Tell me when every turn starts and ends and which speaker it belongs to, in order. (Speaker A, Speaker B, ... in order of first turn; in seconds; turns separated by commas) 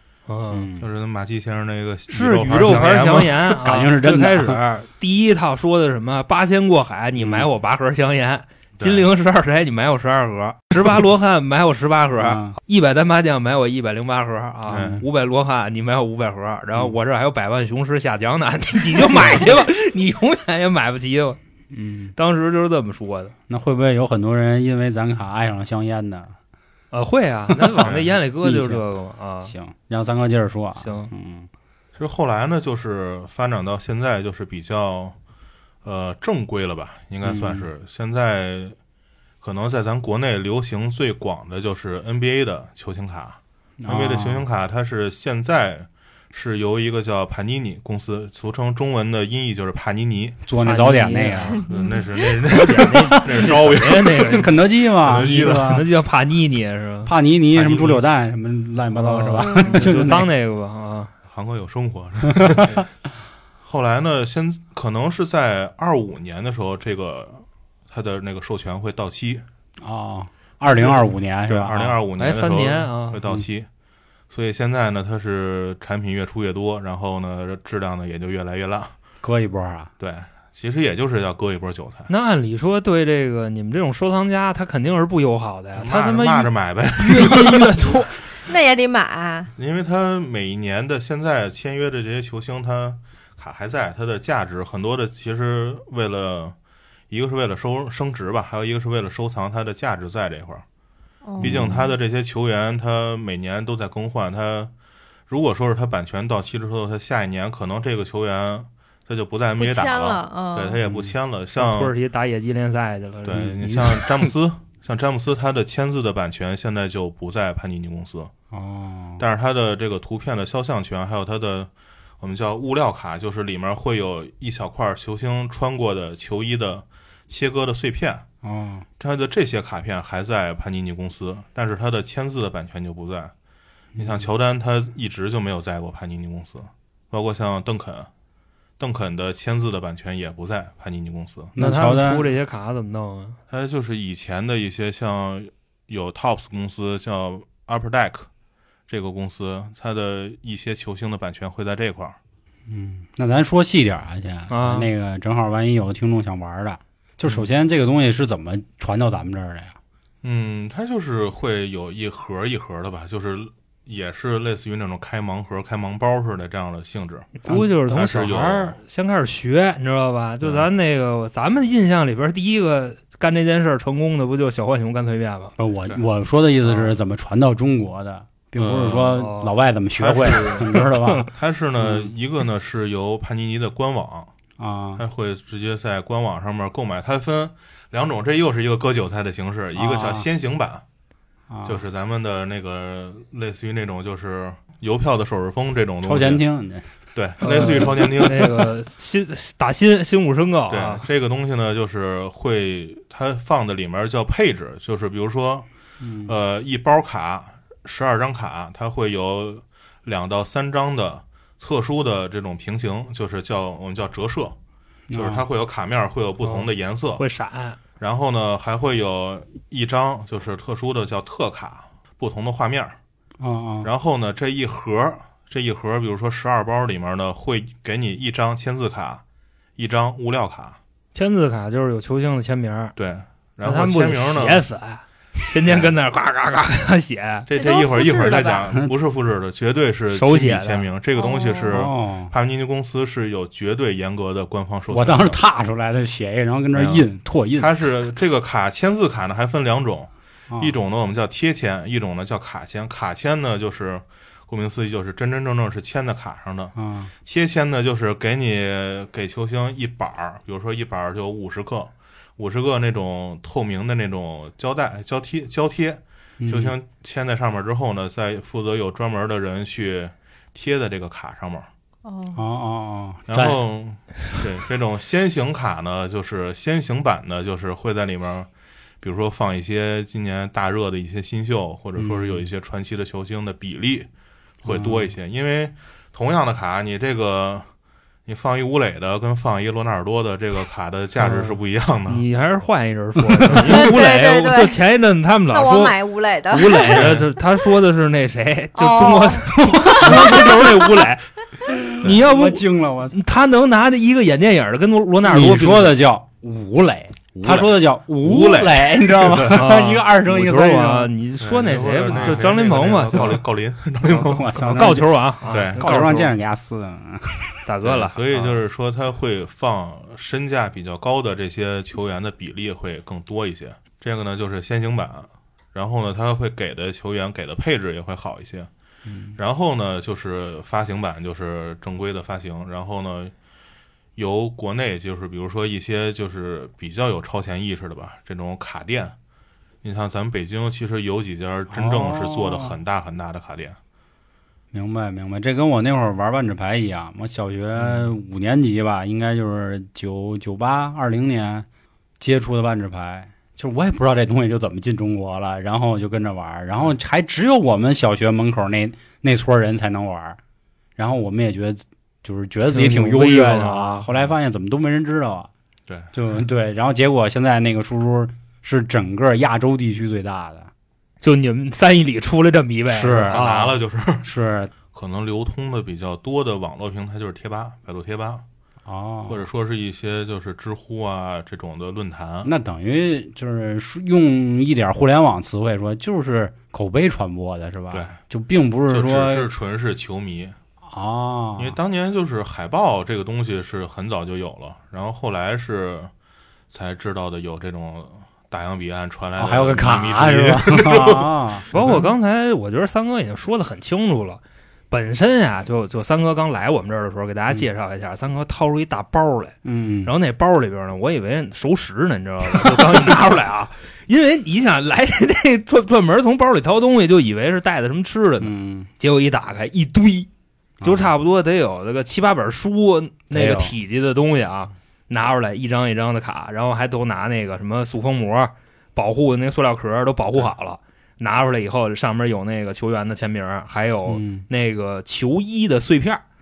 Speaker A: 0.3-0.7, Speaker B: 0.5-0.9, Speaker C: 0.8-3.5, Speaker A: 2.1-21.4, Speaker B: 3.6-4.6, Speaker B: 7.2-7.5, Speaker C: 8.8-9.1, Speaker B: 12.2-12.6, Speaker C: 14.7-15.1, Speaker B: 21.7-22.1, Speaker A: 22.2-23.3, Speaker B: 23.5-26.4, Speaker A: 26.9-29.5, Speaker B: 27.5-28.8, Speaker C: 27.8-28.1, Speaker B: 29.4-31.5, Speaker A: 30.8-31.1, Speaker C: 32.0-35.2, Speaker C: 35.8-38.8, Speaker B: 37.2-37.7, Speaker C: 39.4-50.4, Speaker B: 43.8-44.5, Speaker B: 50.5-51.6, Speaker A: 50.6-54.5, Speaker C: 51.6-55.8, Speaker D: 51.6-51.9, Speaker B: 53.1-53.6, Speaker B: 54.3-55.9, Speaker A: 55.4-57.1, Speaker B: 57.1-60.3, Speaker C: 57.5-58.0, Speaker A: 58.9-61.1, Speaker D: 59.4-59.8, Speaker C: 61.3-62.8, Speaker B: 62.3-62.8, Speaker C: 63.6-69.5, Speaker B: 69.8-72.0, Speaker C: 70.8-73.7, Speaker A: 72.2-73.2, Speaker C: 74.3-78.9, Speaker B: 79.2-79.9, Speaker C: 80.0-82.1, Speaker A: 82.1-88.2, Speaker C: 85.8-88.0, Speaker D: 88.5-89.5, Speaker C: 89.6-96.6, Speaker C: 97.1-100.6, Speaker D: 101.2-101.9, Speaker C: 101.4-104.7, Speaker B: 101.4-101.8, Speaker C: 105.3-111.9, Speaker D: 109.6-110.8, Speaker A: 111.5-114.3, Speaker C: 113.2-118.3, Speaker B: 118.5-119.2, Speaker C: 119.2-128.3, Speaker B: 128.4-128.9, Speaker C: 129.0-133.3, Speaker B: 133.9-134.2, Speaker C: 134.0-138.1, Speaker C: 138.8-141.5, Speaker B: 141.6-142.3, Speaker A: 141.6-143.4, Speaker C: 143.5-148.3, Speaker C: 148.9-152.2, Speaker B: 152.7-159.8, Speaker A: 154.5-154.9, Speaker C: 160.2-168.8, Speaker A: 167.4-175.5, Speaker B: 167.5-167.8, Speaker C: 170.4-170.7, Speaker B: 175.6-181.3, Speaker C: 178.6-179.1, Speaker A: 179.1-179.5, Speaker C: 180.0-180.8, Speaker A: 180.3-181.2, Speaker C: 181.3-184.3, Speaker B: 181.8-182.1, Speaker B: 184.6-185.0, Speaker C: 185.0-190.8, Speaker B: 189.8-190.3, Speaker B: 191.5-191.8, Speaker C: 191.6-196.4, Speaker B: 196.0-196.9, Speaker C: 197.1-198.7, Speaker A: 197.4-201.0, Speaker B: 197.4-197.9, Speaker C: 200.7-205.7, Speaker B: 206.0-206.3, Speaker C: 206.2-214.6, Speaker B: 215.1-215.4, Speaker C: 215.1-217.2, Speaker A: 216.4-217.8, Speaker C: 218.0-223.0, Speaker B: 223.4-223.9, Speaker C: 223.8-229.2, Speaker C: 229.8-230.8, Speaker A: 231.1-232.9, Speaker C: 233.0-234.7, Speaker A: 233.6-237.5, Speaker C: 235.7-235.9, Speaker C: 237.5-245.4, Speaker D: 237.5-238.7, Speaker A: 240.1-240.9, Speaker D: 241.2-241.9, Speaker B: 241.7-242.3, Speaker B: 244.9-247.8, Speaker C: 246.7-247.1, Speaker C: 247.6-271.7, Speaker B: 256.8-257.1, Speaker B: 266.4-266.8, Speaker D: 272.0-272.4, Speaker B: 272.3-273.6, Speaker C: 273.3-278.5, Speaker C: 279.0-284.1, Speaker B: 282.0-282.5, Speaker C: 284.6-287.7, Speaker B: 284.7-285.1, Speaker C: 288.3-292.2, Speaker A: 291.2-291.5, Speaker A: 292.1-301.3, Speaker C: 293.5-293.9, Speaker D: 293.6-294.8, Speaker D: 295.5-297.1, Speaker C: 296.9-297.3, Speaker D: 298.8-300.9, Speaker B: 299.5-300.6, Speaker B: 301.7-303.2, Speaker A: 301.9-306.0, Speaker B: 305.2-311.1, Speaker C: 307.4-309.6, Speaker A: 309.5-313.4, Speaker C: 311.4-314.5, Speaker B: 312.1-312.5, Speaker B: 313.1-313.4, Speaker B: 314.0-317.6, Speaker A: 314.6-316.3, Speaker C: 315.5-315.9, Speaker A: 317.6-318.5, Speaker C: 317.8-328.7, Speaker B: 329.1-329.4, Speaker C: 329.4-333.3, Speaker C: 334.2-339.2, Speaker C: 339.8-343.8, Speaker B: 341.7-342.8, Speaker B: 344.7-351.7, Speaker C: 347.8-348.1, Speaker B: 352.2-360.4, Speaker B: 361.0-365.5, Speaker A: 362.6-364.0, Speaker C: 365.9-366.1, Speaker B: 366.1-370.7, Speaker A: 371.2-373.8, Speaker B: 372.9-373.4, Speaker C: 373.3-374.3, Speaker B: 374.2-374.7, Speaker C: 374.9-378.4, Speaker B: 378.9-379.4, Speaker C: 379.3-382.5, Speaker B: 382.4-389.5, Speaker C: 387.9-388.2, Speaker C: 388.9-390.6, Speaker B: 390.9-391.8, Speaker C: 391.6-396.1, Speaker C: 396.7-402.1, Speaker B: 399.4-401.7, Speaker A: 401.7-420.3, Speaker B: 409.6-410.1, Speaker B: 418.4-418.9, Speaker B: 420.8-421.1, Speaker A: 420.8-436.2, Speaker B: 423.3-423.8, Speaker B: 434.1-434.5